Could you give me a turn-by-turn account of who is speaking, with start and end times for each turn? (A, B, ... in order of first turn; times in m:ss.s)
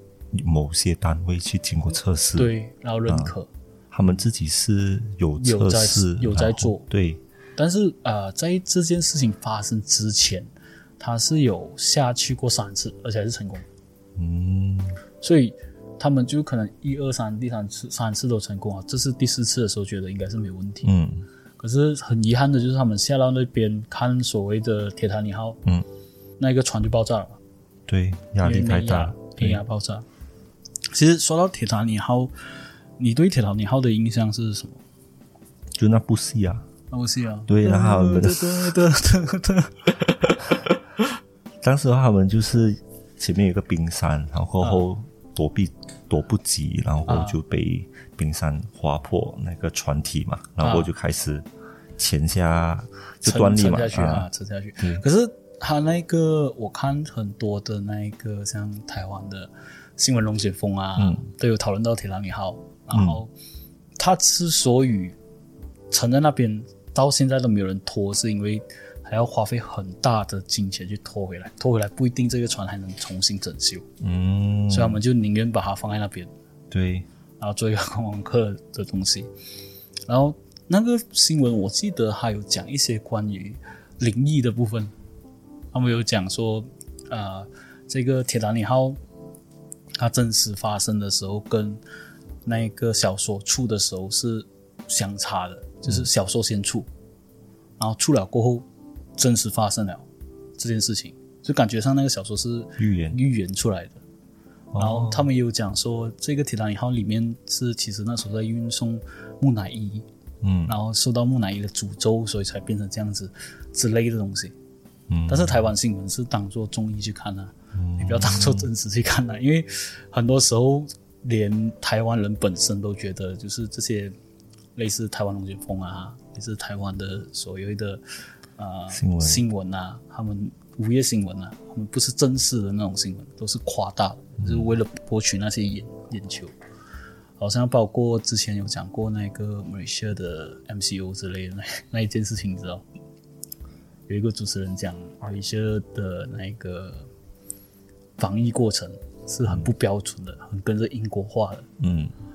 0:00.3-0:02.5 A
0:02.4-0:03.5 B
0:03.1-0:03.3 A
0:03.9-0:07.2 A
0:05.4-0:06.9 B
0:07.6-0:13.6 B
0:14.2-0:15.0 A
0:15.2-0:20.9 B
0:20.8-0:21.2 A
0:21.6-0:25.6 B
0:26.4-0:27.4 B
0:27.9-0:29.6 A
0:28.4-0:30.0 B
0:30.9-0:32.3 B
0:33.0-0:34.8 B
0:35.8-0:36.6 A
0:36.9-0:40.6 B
0:37.5-0:38.7 A
0:41.6-0:51.4 A
0:47.1-0:47.4 B
0:50.6-0:50.9 B
0:52.0-0:54.2 A
0:53.2-1:03.3 B
1:01.0-1:01.2 A
1:02.9-1:03.2 A
1:04.0-1:05.2 B
1:05.9-1:13.8 B
1:14.0-1:15.0 A
1:14.7-1:16.3 B
1:16.7-1:17.1 A
1:17.4-1:19.3 B
1:20.1-1:24.9 B
1:25.7-1:29.0 B
1:30.0-1:31.8 B
1:32.4-1:36.9 B
1:37.8-1:40.0 B
1:40.6-1:44.0 B
1:42.8-1:43.2 A
1:44.7-1:45.3 A
1:44.8-1:50.1 B
1:50.4-1:50.8 A
1:50.7-1:54.5 B
1:55.1-1:55.6 A
1:55.3-2:04.1 B
1:57.7-1:58.7 A
2:04.7-2:08.0 B
2:08.6-2:16.5 B
2:08.9-2:09.4 A
2:14.4-2:14.7 A
2:17.4-2:22.8 B
2:24.1-2:27.1 B
2:28.2-2:31.7 B
2:31.8-2:32.1 A